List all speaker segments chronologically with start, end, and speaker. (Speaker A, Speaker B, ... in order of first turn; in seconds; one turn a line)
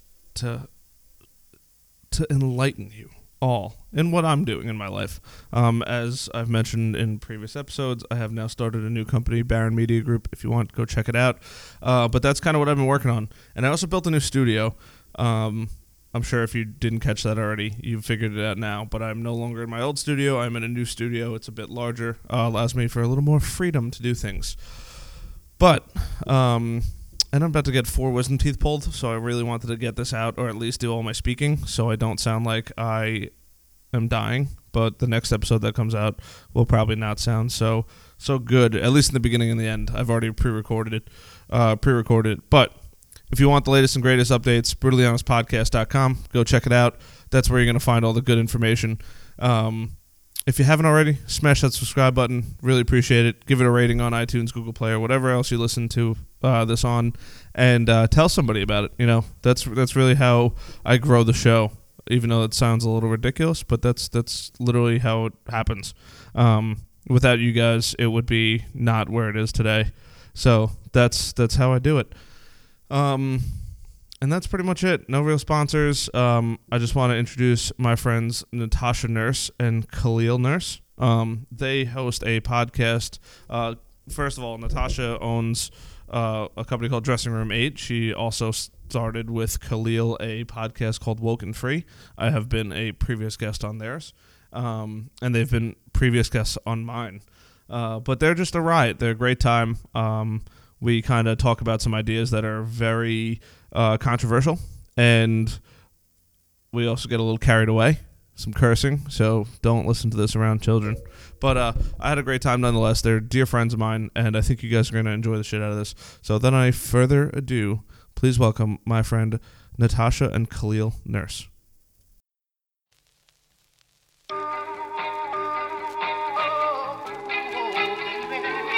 Speaker A: 0.2-0.7
Speaker A: 2.1-72.2
Speaker A: 72.8-105.7
Speaker A: 106.7-121.5